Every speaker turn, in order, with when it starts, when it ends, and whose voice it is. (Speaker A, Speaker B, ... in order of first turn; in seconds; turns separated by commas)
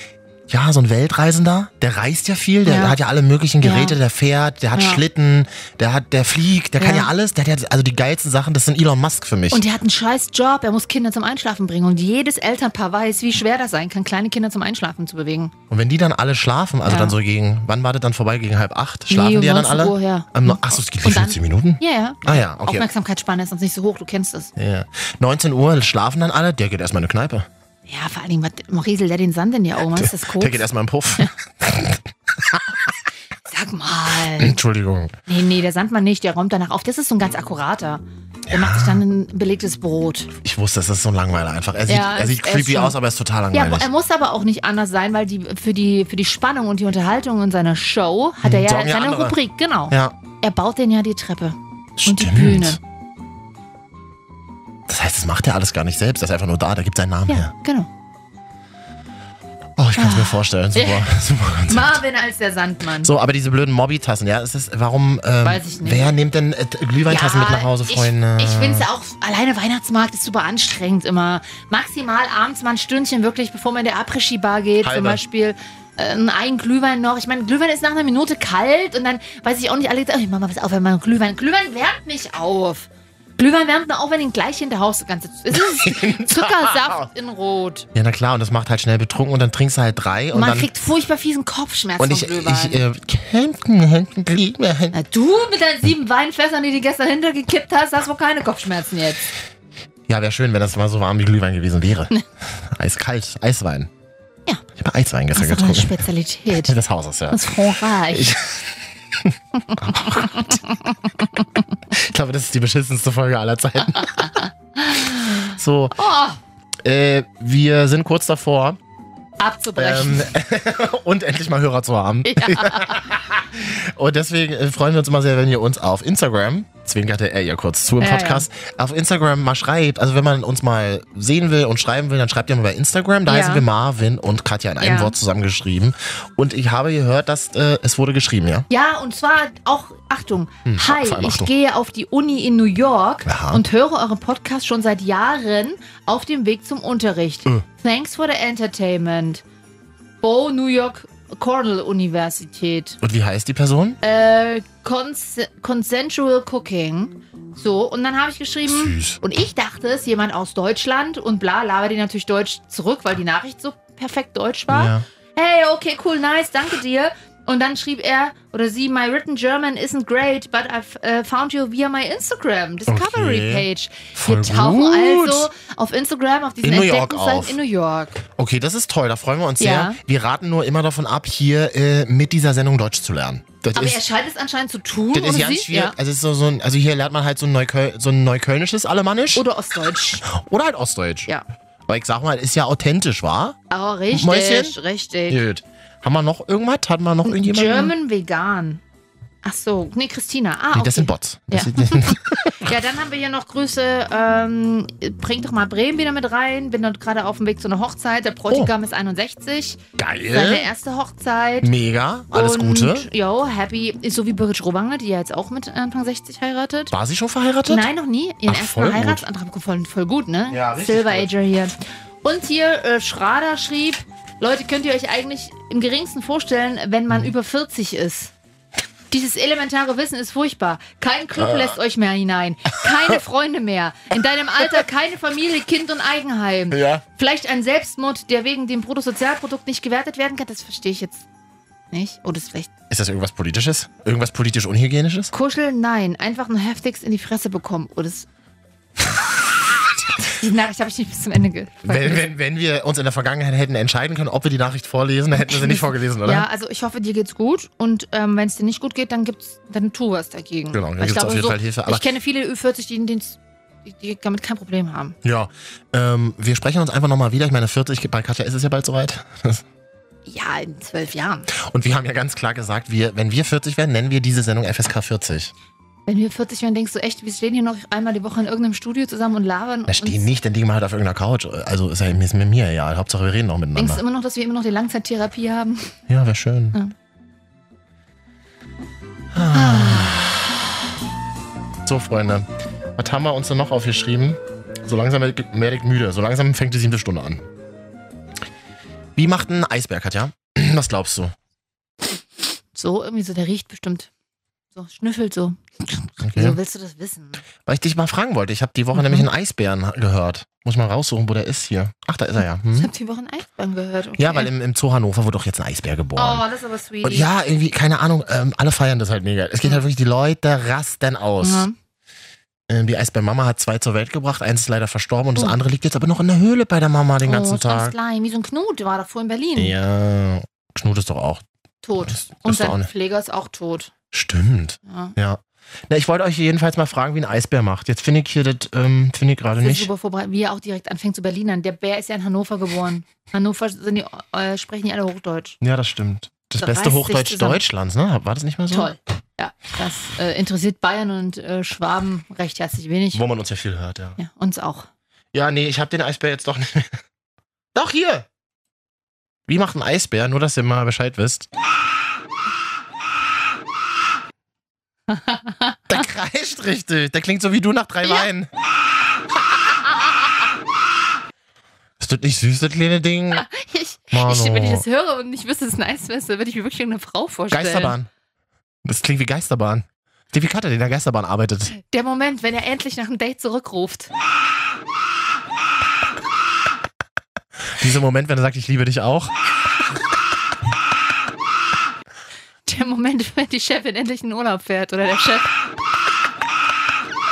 Speaker A: 0.5-9.7, Speaker B: 2.6-3.0, Speaker B: 3.6-4.0, Speaker B: 4.7-5.0, Speaker B: 6.8-7.1, Speaker B: 9.5-15.5, Speaker A: 15.7-22.9, Speaker B: 16.8-17.1, Speaker B: 19.1-24.5, Speaker A: 24.6-27.5, Speaker B: 27.9-30.6, Speaker A: 29.9-32.6, Speaker B: 33.5-34.6, Speaker A: 34.4-35.1, Speaker B: 35.3-40.3, Speaker A: 38.5-39.0, Speaker A: 40.4-43.9, Speaker B: 41.9-43.0, Speaker B: 43.5-52.8, Speaker A: 48.4-49.4, Speaker A: 49.9-50.1, Speaker A: 52.0-52.8, Speaker A: 54.9-57.5, Speaker B: 57.3-57.9, Speaker A: 59.8-62.0, Speaker B: 60.0-63.1, Speaker A: 63.0-68.9, Speaker B: 65.4-66.1, Speaker B: 67.1-87.9, Speaker A: 74.8-75.2, Speaker A: 85.5-87.1, Speaker A: 87.9-90.7, Speaker B: 90.3-92.8, Speaker A: 92.0-95.0, Speaker B: 94.9-99.3, Speaker A: 100.1-103.9, Speaker A: 104.8-106.0, Speaker B: 105.3-106.7, Speaker A: 106.5-110.6, Speaker B: 107.3-108.3, Speaker B: 109.7-111.6, Speaker A: 111.9-114.4, Speaker B: 113.9-116.4, Speaker A: 115.4-116.0, Speaker A: 116.8-118.8, Speaker B: 119.4-120.3, Speaker A: 119.8-138.7, Speaker B: 122.2-123.0, Speaker B: 128.0-128.4, Speaker B: 133.2-133.6, Speaker B: 134.8-135.2, Speaker B: 138.7-149.4, Speaker A: 140.7-141.5, Speaker A: 143.2-143.6, Speaker B: 150.2-153.0, Speaker A: 153.0-154.0, Speaker B: 154.0-178.2, Speaker A: 158.7-159.2, Speaker A: 164.7-165.1, Speaker A: 172.9-175.5, Speaker A: 176.6-177.6, Speaker A: 178.3-184.0, Speaker B: 179.6-180.0, Speaker B: 183.7-186.0, Speaker A: 185.1-189.4, Speaker B: 189.3-190.2, Speaker A: 190.2-191.3, Speaker A: 191.9-193.6, Speaker B: 193.7-195.4, Speaker A: 194.1-194.8, Speaker A: 195.3-197.9, Speaker B: 197.2-198.8, Speaker B: 199.4-209.8, Speaker A: 200.7-202.7, Speaker A: 210.0-210.7, Speaker B: 210.3-211.7, Speaker A: 211.6-213.1, Speaker B: 212.3-216.9, Speaker A: 216.9-217.8, Speaker B: 217.7-228.3, Speaker A: 218.5-219.2, Speaker A: 220.5-221.3, Speaker B: 229.1-241.3, Speaker A: 236.7-237.0, Speaker B: 241.9-242.7, Speaker A: 242.9-245.3, Speaker B: 245.3-248.3, Speaker B: 250.2-252.2, Speaker A: 251.8-256.4, Speaker B: 255.4-265.1, Speaker A: 260.7-262.1, Speaker A: 265.2-269.6, Speaker B: 270.2-271.5, Speaker A: 271.5-275.5, Speaker B: 276.1-280.3, Speaker A: 279.9-284.0, Speaker B: 283.7-285.9, Speaker A: 286.1-286.8, Speaker A: 289.3-290.4, Speaker B: 289.5-290.3, Speaker A: 291.9-297.4, Speaker A: 299.1-301.3, Speaker B: 302.7-304.1, Speaker B: 304.7-307.4, Speaker A: 306.2-306.6, Speaker A: 307.6-312.9, Speaker B: 308.9-309.3, Speaker B: 312.7-314.5, Speaker A: 314.2-316.4, Speaker B: 316.1-317.3, Speaker A: 317.0-321.7, Speaker B: 321.4-321.8, Speaker A: 322.7-327.9, Speaker B: 327.2-329.8, Speaker A: 329.6-331.4, Speaker B: 331.8-333.9, Speaker A: 332.0-332.9, Speaker A: 334.1-339.9, Speaker B: 334.9-335.1, Speaker B: 339.6-345.6, Speaker A: 345.6-348.9, Speaker B: 346.6-347.6, Speaker B: 348.7-353.2, Speaker A: 353.1-354.2, Speaker B: 354.2-354.9, Speaker A: 355.3-357.0, Speaker A: 357.7-358.3, Speaker A: 359.5-361.5, Speaker B: 365.1-366.0, Speaker A: 365.9-368.5, Speaker B: 368.0-368.3, Speaker A: 372.0-373.5, Speaker B: 373.3-377.9, Speaker A: 374.1-374.8, Speaker A: 377.5-378.1, Speaker A: 378.8-381.8, Speaker B: 381.7-384.1, Speaker A: 387.7-389.4, Speaker B: 392.6-395.5